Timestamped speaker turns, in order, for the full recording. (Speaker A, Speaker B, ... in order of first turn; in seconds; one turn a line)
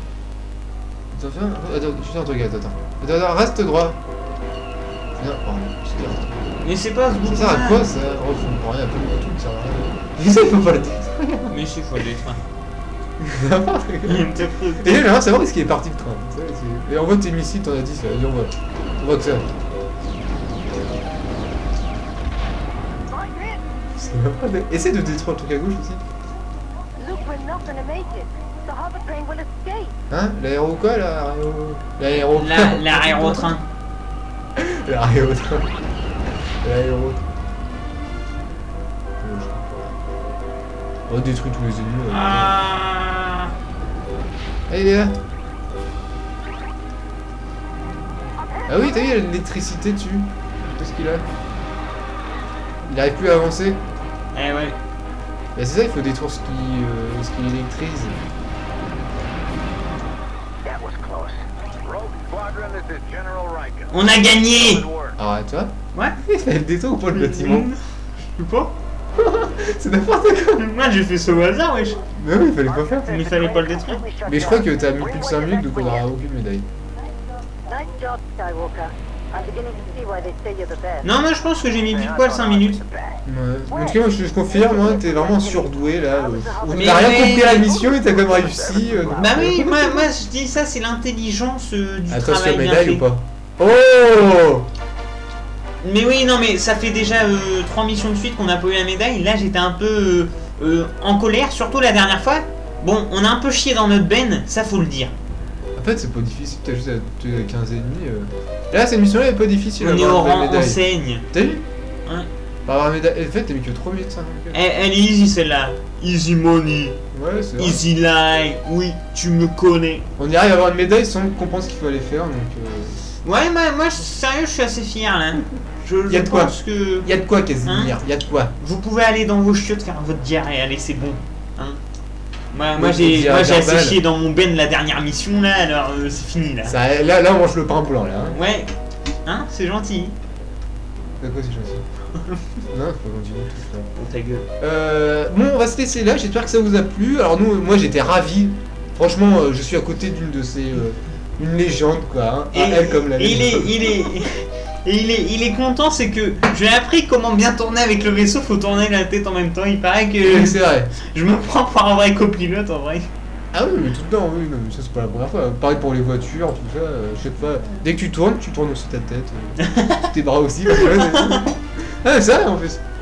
Speaker A: 1.1-4.0
Speaker A: 5.2-6.5
Speaker B: 6.6-7.9
Speaker A: 7.2-11.5
Speaker B: 11.5-12.4
Speaker A: 13.2-14.3
Speaker B: 14.1-15.1
Speaker A: 14.8-19.5
Speaker C: 23.1-23.6
Speaker A: 24.0-26.0
Speaker C: 27.0-29.9
Speaker A: 30.1-33.6
Speaker B: 32.2-33.7
Speaker A: 34.6-35.7
Speaker A: 36.6-37.2
Speaker A: 39.2-40.0
Speaker A: 41.1-42.6
Speaker B: 42.1-43.5
Speaker A: 44.7-45.2
Speaker A: 48.7-51.3
Speaker A: 52.9-53.8
Speaker B: 54.3-54.8
Speaker A: 55.5-58.2
Speaker C: 60.6-63.9
Speaker B: 63.9-64.9
Speaker A: 65.2-67.7
Speaker B: 67.1-67.8
Speaker B: 68.3-68.7
Speaker A: 69.2-70.7
Speaker B: 70.5-72.0
Speaker A: 72.2-73.2
Speaker B: 73.1-74.1
Speaker C: 73.2-76.0
Speaker A: 74.2-76.7
Speaker C: 77.7-81.0
Speaker B: 81.0-82.8
Speaker C: 82.0-83.2
Speaker A: 83.3-90.0
Speaker C: 84.7-85.7
Speaker C: 86.2-86.8
Speaker B: 86.7-87.7
Speaker C: 87.8-89.1
Speaker B: 89.1-93.0
Speaker A: 92.1-94.7
Speaker B: 95.8-105.1
Speaker A: 105.8-110.8
Speaker B: 109.8-111.3
Speaker A: 111.3-111.7
Speaker A: 112.7-114.6
Speaker B: 114.5-117.0
Speaker A: 117.1-117.8
Speaker B: 117.6-120.1
Speaker A: 120.2-123.0
Speaker B: 123.2-127.1
Speaker A: 126.1-128.5
Speaker B: 127.7-127.9
Speaker B: 128.6-131.8
Speaker B: 132.5-136.8
Speaker A: 132.8-134.0
Speaker A: 136.7-138.4
Speaker B: 138.3-138.7
Speaker B: 139.2-140.2
Speaker A: 141.2-141.8
Speaker A: 142.7-143.9
Speaker B: 144.0-144.5
Speaker A: 144.6-153.9
Speaker B: 152.5-163.1
Speaker A: 160.2-160.9
Speaker A: 163.5-172.8
Speaker B: 169.6-170.1
Speaker B: 170.7-171.4